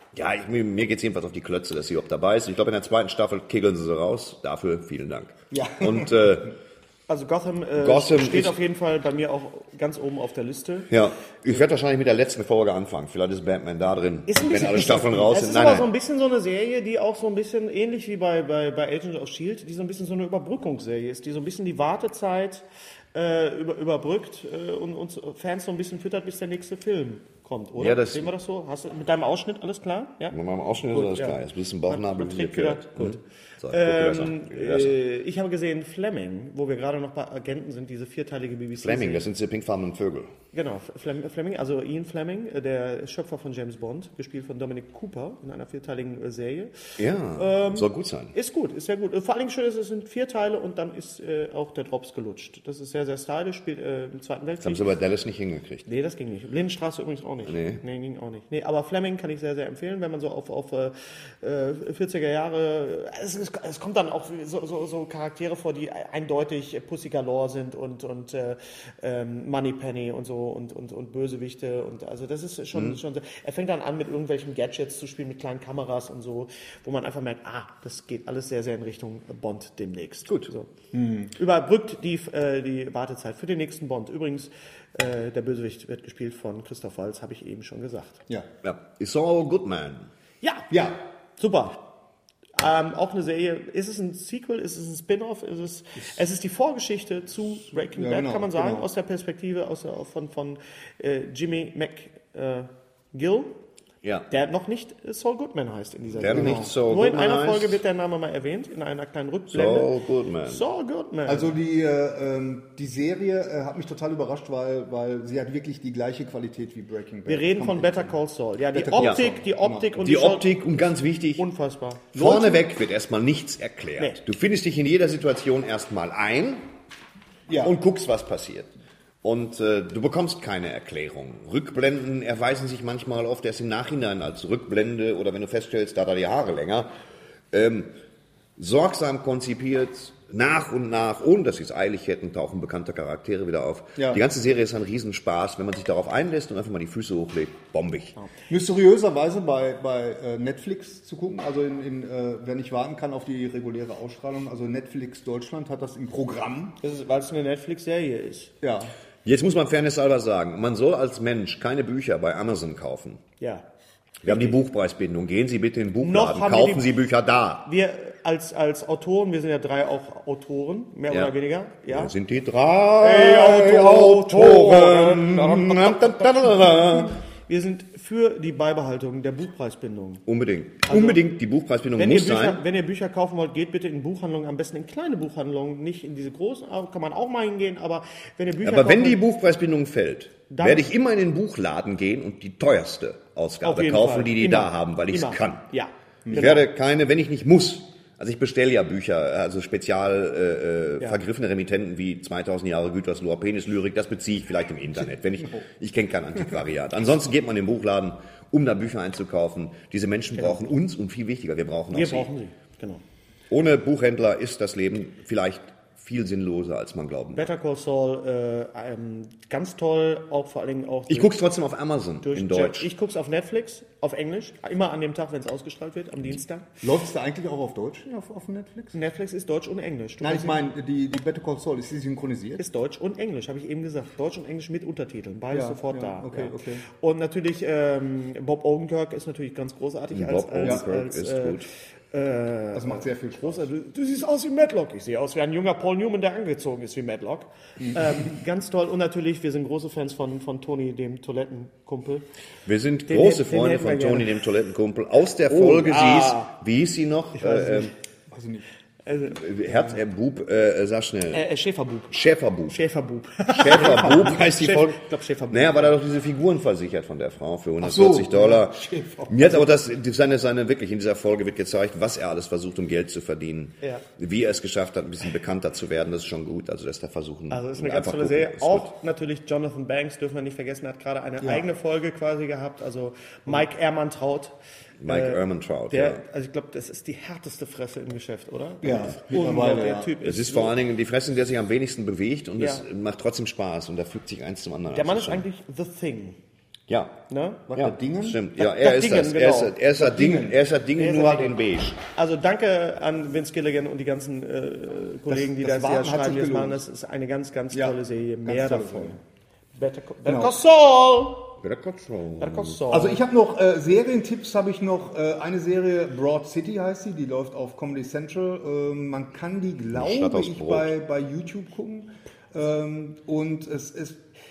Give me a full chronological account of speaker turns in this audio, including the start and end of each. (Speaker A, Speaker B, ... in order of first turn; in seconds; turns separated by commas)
Speaker A: 0.1-6.6, Speaker B: 5.5-6.3, Speaker C: 7.1-10.9, Speaker A: 7.8-8.6, Speaker A: 10.9-15.9, Speaker C: 14.3-30.4, Speaker A: 27.8-28.3, Speaker A: 30.3-35.0, Speaker C: 30.9-39.2, Speaker A: 38.8-40.3, Speaker C: 40.5-54.9, Speaker A: 47.0-48.3, Speaker A: 54.6-55.9, Speaker C: 55.9-80.7, Speaker A: 57.4-57.8, Speaker A: 72.7-73.0, Speaker A: 80.3-80.5, Speaker B: 80.9-81.3, Speaker C: 81.3-88.2, Speaker A: 88.6-90.1, Speaker C: 90.4-90.7, Speaker B: 90.7-91.0, Speaker C: 91.4-91.8, Speaker C: 92.5-103.5, Speaker B: 97.9-98.9, Speaker C: 104.3-109.9, Speaker A: 106.2-107.8, Speaker B: 106.3-106.7, Speaker A: 109.5-110.6, Speaker C: 110.4-111.5, Speaker B: 111.2-118.2, Speaker C: 117.2-120.5, Speaker B: 118.7-119.9, Speaker A: 119.0-119.2, Speaker A: 120.0-121.5, Speaker C: 121.4-122.1, Speaker A: 122.1-126.6, Speaker B: 122.1-122.6, Speaker B: 127.5-127.8, Speaker A: 127.6-128.7, Speaker A: 129.2-136.9, Speaker A: 137.5-137.9, Speaker A: 138.6-148.2, Speaker B: 148.5-156.8, Speaker C: 156.8-158.5, Speaker B: 158.6-158.9, Speaker A: 159.2-163.2, Speaker C: 163.4-163.6, Speaker C: 164.2-164.6, Speaker A: 164.2-167.7, Speaker C: 166.0-166.9, Speaker C: 167.6-172.1, Speaker A: 171.9-177.2, Speaker C: 173.0-180.2, Speaker A: 180.2-182.6, Speaker C: 180.9-181.2, Speaker C: 182.0-189.2, Speaker A: 188.6-195.6, Speaker C: 190.5-190.9, Speaker C: 193.6-196.7, Speaker B: 196.2-196.5, Speaker A: 196.3-212.3, Speaker C: 210.3-210.7, Speaker C: 211.9-213.0, Speaker A: 213.5-217.5, Speaker C: 217.3-221.3, Speaker A: 221.1-222.9, Speaker C: 222.2-226.7, Speaker B: 226.8-228.9, Speaker C: 228.9-230.6, Speaker B: 230.2-232.6, Speaker C: 232.6-252.2, Speaker B: 235.5-236.8, Speaker A: 240.1-241.7, Speaker B: 242.7-243.7, Speaker B: 247.8-248.2, Speaker A: 252.7-257.9, Speaker C: 253.1-254.3, Speaker C: 255.5-256.5, Speaker C: 257.4-257.9, Speaker B: 258.3-258.6, Speaker C: 259.1-259.4, Speaker A: 259.3-261.5, Speaker C: 261.3-262.2, Speaker A: 262.1-262.8, Speaker C: 262.7-266.0, Speaker A: 263.5-278.9, Speaker B: 267.8-269.6, Speaker C: 277.5-290.7, Speaker B: 281.4-281.6, Speaker A: 285.0-286.2, Speaker B: 288.8-290.1, Speaker A: 290.2-295.4, Speaker C: 292.6-292.8, Speaker C: 294.9-296.4, Speaker A: 296.9-302.0, Speaker C: 297.3-297.6, Speaker B: 297.7-298.4, Speaker C: 298.6-299.8, Speaker B: 300.0-300.6, Speaker C: 301.0-301.6, Speaker C: 302.1-309.2, Speaker B: 305.3-306.8, Speaker B: 307.7-309.2, Speaker C: 309.7-311.6, Speaker B: 310.2-310.5, Speaker A: 311.6-312.8, Speaker C: 312.4-313.2, Speaker B: 312.9-324.2, Speaker A: 319.9-320.9